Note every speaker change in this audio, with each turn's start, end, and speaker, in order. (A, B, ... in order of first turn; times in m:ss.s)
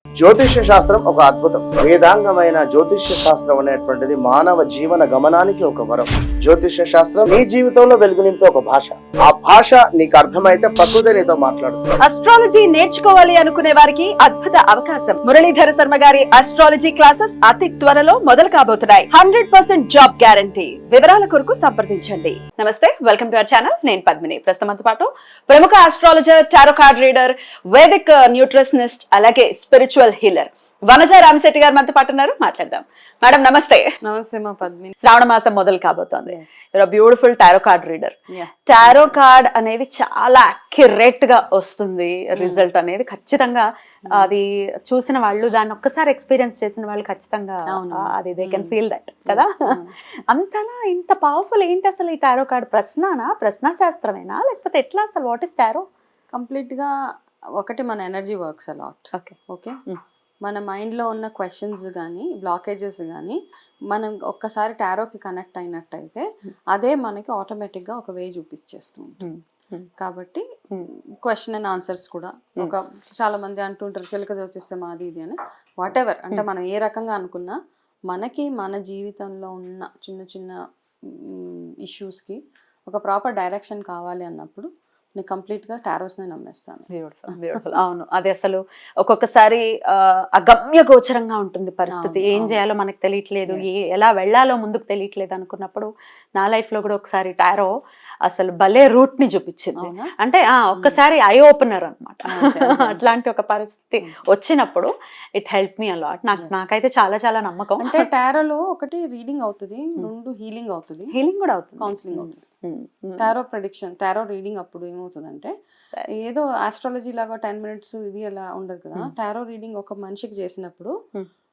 0:00.2-0:11.8 A
0:12.0-0:33.9 B
0:34.0-0:34.9 C
0:35.0-0:38.1 B
0:36.2-0:36.7 C
0:38.3-0:39.2 C
0:38.7-0:49.8 B
0:42.3-0:42.6 C
0:44.1-0:44.3 C
0:47.7-0:48.7 C
0:49.3-0:49.9 C
0:50.3-0:55.8 B
0:56.3-0:56.9 C
0:57.6-0:59.8 C
1:00.4-1:03.4 C
1:03.9-1:09.2 C
1:09.2-1:09.9 B
1:10.0-1:10.4 C
1:11.2-1:17.6 C
1:18.1-1:20.6 C
1:21.1-1:26.8 C
1:26.9-1:37.7 B
1:31.9-1:32.6 C
1:38.2-1:48.1 B
1:39.8-1:40.1 C
1:42.3-1:43.1 C
1:46.4-1:46.7 C
1:47.8-1:51.1 C
1:51.1-1:53.3 B
1:51.8-1:52.4 C
1:53.2-1:55.5 C
1:56.2-2:00.9 C